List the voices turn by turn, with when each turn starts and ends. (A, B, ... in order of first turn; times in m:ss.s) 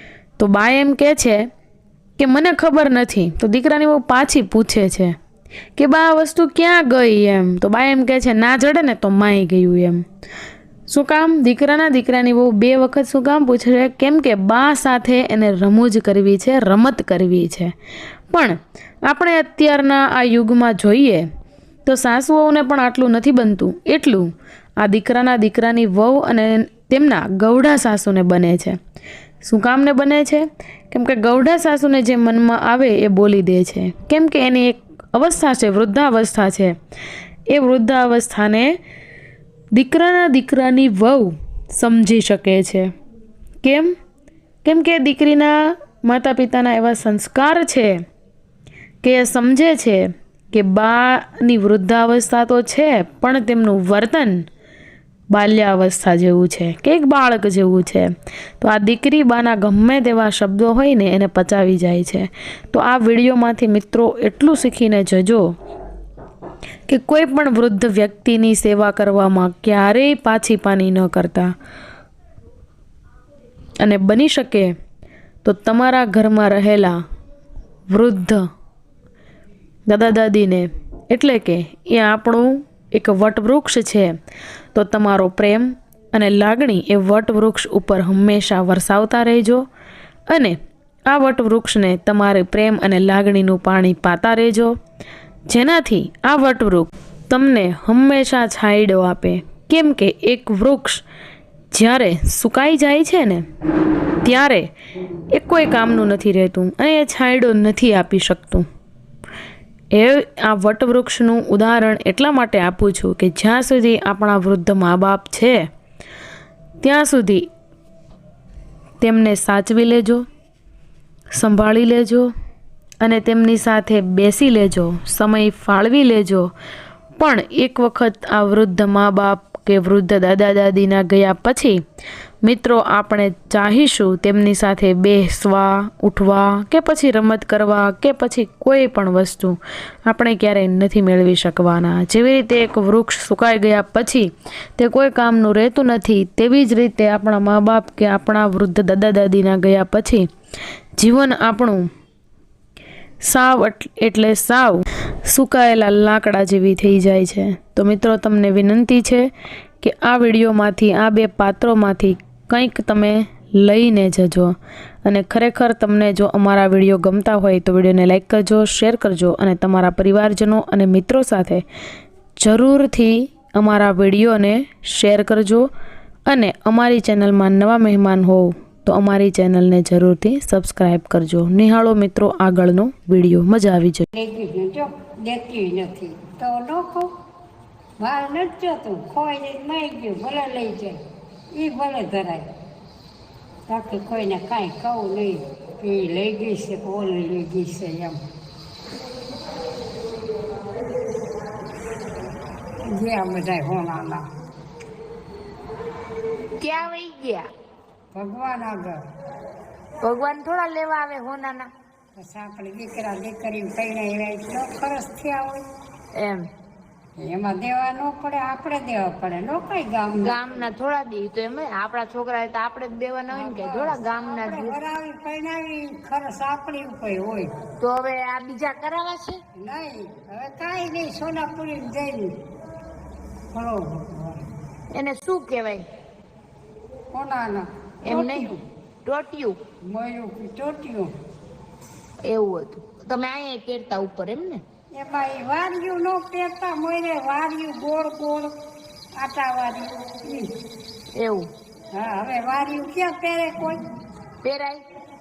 0:00.4-0:01.5 A
0:02.2-0:05.2 A
0:05.8-0:10.0 A
0:10.9-0:17.7 A
0:18.3-0:21.2 A
0:21.8-0:28.8 A
0:29.4-0:36.8 A
0:37.5-0:38.7 A
0:39.7-0:42.9 A
0:43.6-0:43.9 A
0:44.6-0:48.0 A
0:49.0-0:54.4 A
0:55.3-1:05.5 A
1:06.9-1:11.5 A
1:13.8-1:14.7 A
1:15.4-1:17.0 A
1:17.9-1:18.4 A
1:19.9-1:24.1 A
1:24.7-1:29.6 A
1:30.3-1:34.7 A
1:35.5-1:41.0 A
1:41.7-1:43.4 A
1:44.2-1:44.7 A
1:45.3-1:48.6 A
1:49.9-1:55.6 A
1:56.8-1:57.5 A
1:59.0-2:00.2 A
2:01.3-2:02.3 A
2:03.0-2:06.5 A
2:07.2-2:11.8 A
2:12.4-2:30.3 A
2:31.0-2:31.9 A
2:33.2-2:51.6 A
2:52.4-2:55.7 A
2:56.3-3:04.0 A
3:04.1-3:07.1 B
3:08.0-3:11.0 B
3:11.5-3:12.5 B
3:13.7-3:18.2 B
3:22.8-3:24.3 B
3:26.6-3:27.5 C
3:28.1-3:29.0 B
3:30.0-3:31.7 C
3:32.1-3:35.6 B
3:36.1-3:36.5 C
3:37.2-3:40.4 B
3:40.2-3:44.7 C
3:43.3-3:47.5 B
3:47.8-3:49.4 C
3:49.6-3:52.4 B
3:53.5-3:54.4 B
3:54.9-3:55.9 C
3:57.1-3:58.6 B
3:58.0-3:58.5 C
3:59.0-3:59.6 C
3:59.9-4:01.1 B
4:02.2-4:04.6 C
4:04.9-4:08.6 B
4:09.2-4:10.5 B
4:11.1-4:11.5 C
4:11.9-4:13.8 B
4:14.4-4:14.8 C